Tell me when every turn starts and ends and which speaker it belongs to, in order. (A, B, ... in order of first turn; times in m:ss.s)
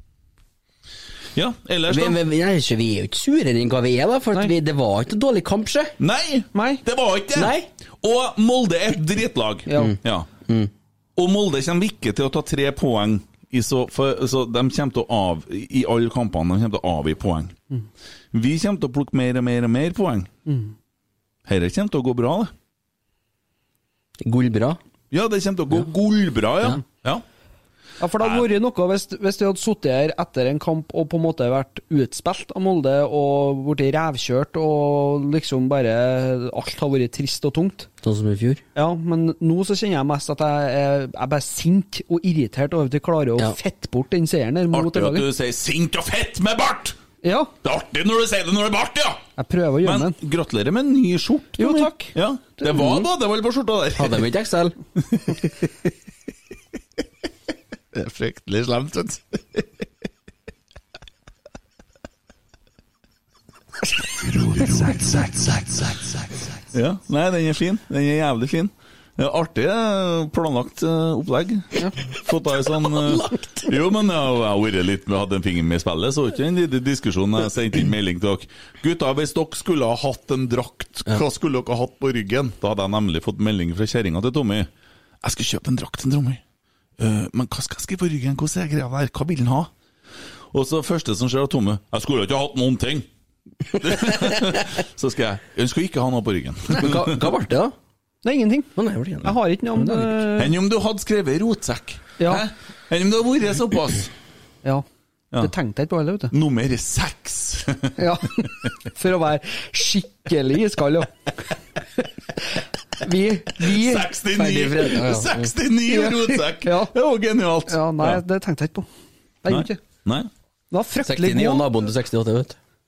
0:01.4-0:02.2 A
0:01.9-0:05.9 B
0:06.0-0:10.3 A
0:06.5-0:06.8 C
0:07.4-0:07.7 B
0:09.7-0:09.9 C
0:09.8-0:10.7 B
0:11.2-0:17.6 A
0:18.3-0:20.3 A
0:20.5-0:20.7 C
0:21.5-0:22.5 A
0:24.2-0:24.8 B
0:25.1-0:27.2 A
0:28.0-0:37.9 C
0:28.2-0:28.5 A
0:38.0-0:38.6 B
0:38.8-0:45.3 C
0:44.7-0:47.0 A
0:47.2-0:47.5 C
0:47.6-0:49.3 A
0:49.4-0:50.2 C
0:49.8-0:54.2 A
0:51.6-0:52.1 C
0:54.0-0:54.8 B
0:57.9-0:59.7 A
1:04.5-1:06.0 A
1:06.7-1:24.7 A
1:13.1-1:13.7 B
1:25.2-1:26.4 A
1:27.0-1:29.7 A
1:30.5-1:33.1 A
1:33.8-1:37.3 A
1:36.8-1:37.8 B
1:38.2-1:38.7 C
1:38.8-1:40.2 B
1:39.2-1:40.6 C
1:40.4-1:44.1 A
1:42.2-1:42.5 C
1:45.4-1:46.3 C
1:46.3-1:48.0 A
1:48.0-1:51.1 C
1:53.0-1:54.1 C
1:53.6-1:58.2 A
1:54.3-1:55.5 B
1:55.9-1:56.9 C
1:57.7-1:58.9 C
1:59.4-1:59.8 C
1:59.5-2:00.3 A
2:00.7-2:01.7 C
2:01.0-2:02.6 B